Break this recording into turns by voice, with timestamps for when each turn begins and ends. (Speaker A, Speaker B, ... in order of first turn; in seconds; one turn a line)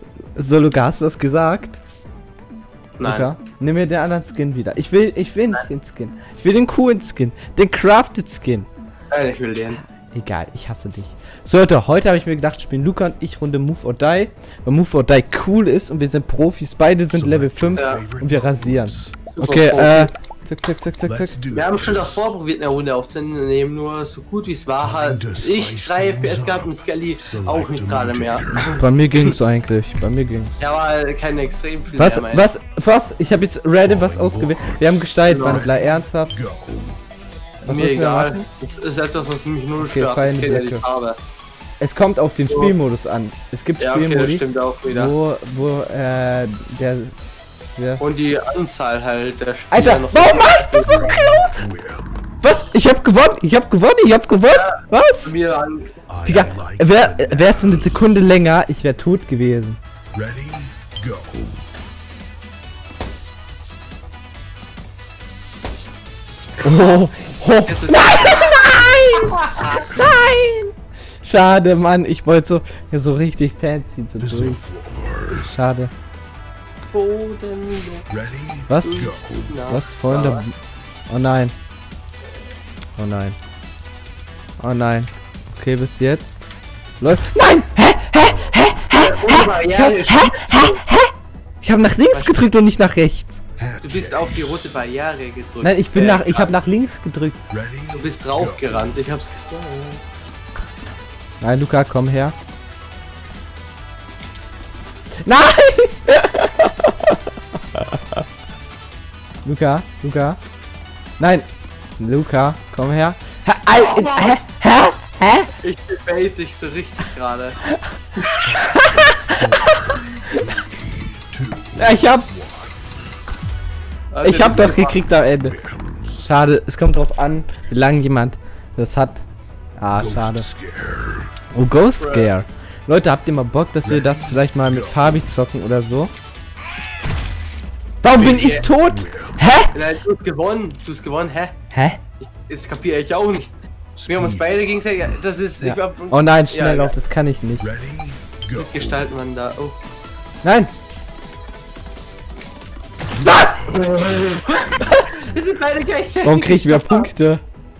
Speaker A: 0.4-1.8
Speaker B: 3.0-3.3
Speaker A: 3.0-8.7
Speaker B: 9.1-9.8
Speaker A: 10.0-21.3
Speaker C: 17.1-19.1
Speaker B: 17.8-18.0
Speaker B: 19.3-20.1
Speaker C: 21.1-22.1
Speaker B: 21.5-29.3
Speaker C: 24.9-28.8
Speaker A: 28.8-30.6
Speaker B: 30.6-32.5
Speaker A: 32.0-36.4
Speaker C: 33.8-34.8
Speaker B: 35.3-35.6
Speaker C: 35.4-37.0
Speaker A: 37.6-38.4
Speaker B: 37.6-41.2
Speaker A: 39.8-40.8
Speaker A: 41.8-47.1
Speaker B: 43.8-45.1
Speaker A: 47.8-48.0
Speaker B: 48.0-51.1
Speaker A: 49.7-51.6
Speaker C: 50.9-52.3
Speaker A: 52.4-55.3
Speaker B: 54.5-55.9
Speaker C: 56.1-58.0
Speaker A: 56.2-59.8
Speaker C: 60.1-61.5
Speaker A: 66.6-74.7
Speaker B: 67.6-68.6
Speaker B: 69.2-69.8
Speaker C: 69.6-69.9
Speaker C: 74.2-75.4
Speaker A: 75.3-75.9
Speaker B: 76.9-78.0
Speaker C: 78.1-79.5
Speaker A: 78.7-79.1
Speaker B: 78.8-80.5
Speaker A: 79.7-80.5
Speaker A: 81.1-81.5
Speaker A: 83.0-83.3
Speaker A: 84.6-86.4
Speaker A: 87.0-93.4
Speaker C: 88.3-88.8
Speaker B: 89.0-90.8
Speaker B: 92.1-92.4
Speaker C: 93.6-94.5
Speaker B: 93.8-96.6
Speaker A: 95.6-97.4
Speaker C: 97.5-98.9
Speaker B: 97.9-100.0
Speaker A: 101.4-102.3
Speaker A: 105.2-108.2
Speaker A: 109.4-110.4
Speaker A: 111.2-111.5
Speaker A: 112.0-115.5
Speaker B: 113.9-114.3
Speaker B: 115.6-117.6
Speaker C: 118.4-122.8
Speaker A: 118.6-120.5
Speaker A: 121.8-122.3
Speaker B: 124.1-125.0
Speaker A: 124.2-125.6
Speaker C: 125.5-126.2
Speaker A: 126.2-129.2
Speaker A: 129.8-130.5
Speaker C: 130.0-131.3
Speaker A: 131.5-136.1
Speaker B: 132.0-132.3
Speaker C: 133.8-135.2
Speaker A: 138.0-139.7
Speaker B: 138.1-138.7
Speaker C: 138.4-139.4
Speaker B: 139.7-141.5
Speaker A: 141.7-142.0
Speaker B: 142.2-143.5
Speaker C: 144.0-144.6
Speaker B: 144.1-146.9
Speaker A: 145.6-147.7
Speaker C: 147.6-149.0
Speaker B: 148.5-149.8
Speaker A: 150.4-150.7
Speaker A: 153.2-155.2
Speaker B: 155.1-157.1
Speaker A: 156.2-157.4